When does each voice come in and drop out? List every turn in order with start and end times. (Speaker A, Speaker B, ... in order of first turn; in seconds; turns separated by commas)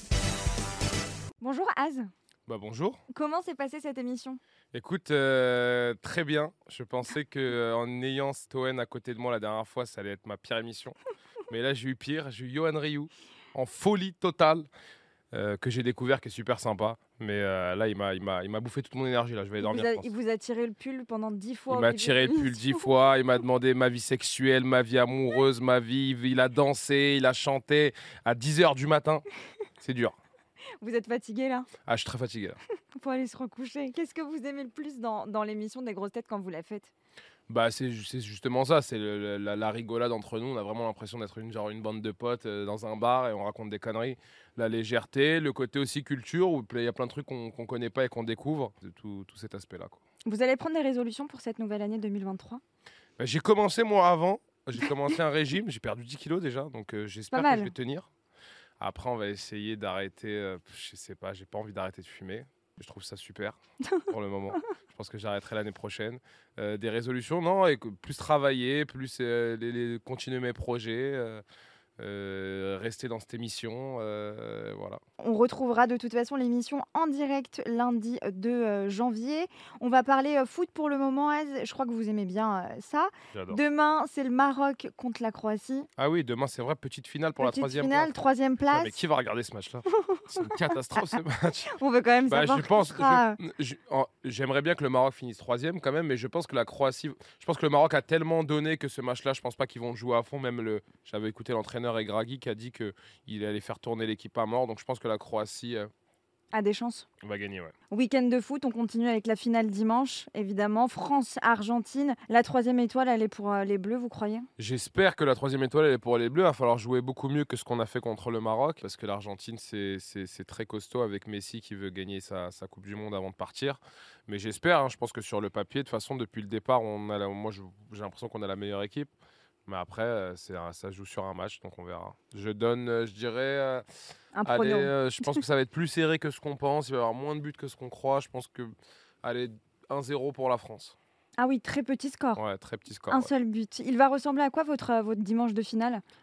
Speaker A: 1.4-2.1, Speaker B: 2.5-3.0, Speaker A: 3.1-4.4, Speaker B: 4.7-10.9, Speaker B: 11.5-14.7, Speaker B: 15.3-20.1, Speaker A: 19.6-22.8, Speaker B: 21.7-29.2, Speaker B: 29.8-30.1, Speaker A: 30.8-31.7, Speaker B: 31.8-32.6, Speaker A: 33.0-36.9, Speaker B: 37.5-50.0, Speaker A: 50.2-52.6, Speaker B: 53.2-58.1, Speaker A: 57.3-57.7, Speaker B: 58.8-71.4, Speaker A: 63.9-64.6, Speaker B: 72.0-75.0, Speaker A: 75.2-85.9, Speaker B: 83.3-83.6, Speaker B: 86.0-88.1, Speaker A: 87.4-89.0, Speaker B: 88.7-91.7, Speaker A: 91.7-93.4, Speaker B: 92.3-105.9, Speaker A: 106.5-107.1, Speaker B: 107.2-107.7, Speaker A: 107.9-114.5, Speaker B: 114.6-129.1, Speaker B: 129.7-133.8, Speaker A: 134.3-135.4, Speaker B: 134.4-140.9, Speaker A: 141.4-142.4, Speaker B: 142.3-143.3, Speaker A: 143.1-146.0